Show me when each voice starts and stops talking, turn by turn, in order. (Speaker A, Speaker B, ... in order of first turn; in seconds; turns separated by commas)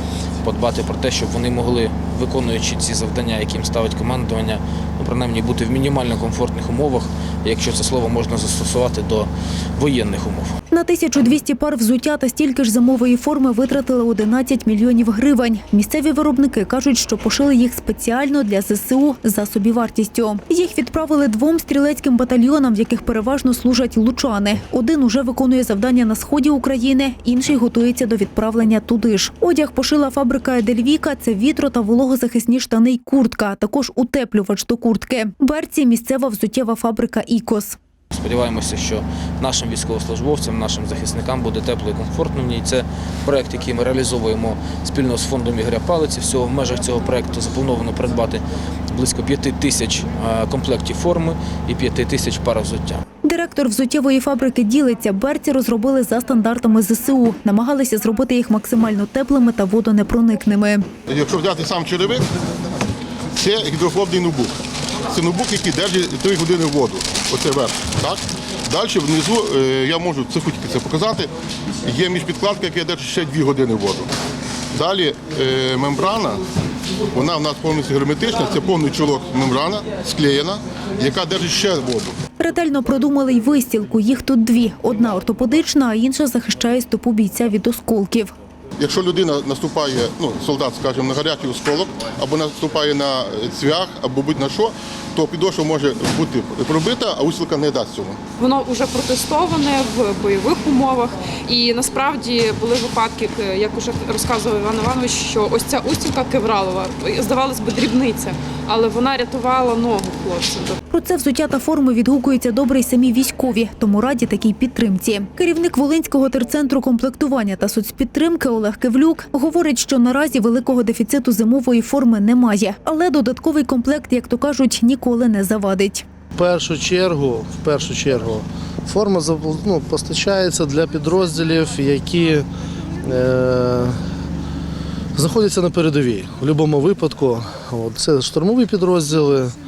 Speaker A: 0.4-10.5, Speaker B: 10.7-37.8, Speaker A: 38.1-53.0, Speaker B: 53.2-60.9, Speaker C: 61.1-62.3, Speaker C: 63.3-64.5, Speaker C: 65.1-71.3, Speaker C: 71.8-74.1, Speaker C: 74.7-76.4, Speaker C: 77.1-82.2, Speaker B: 82.4-88.3, Speaker C: 88.8-98.2, Speaker D: 98.4-110.8, Speaker B: 110.9-126.0, Speaker E: 126.4-132.5, Speaker E: 133.0-134.0, Speaker E: 135.2-139.6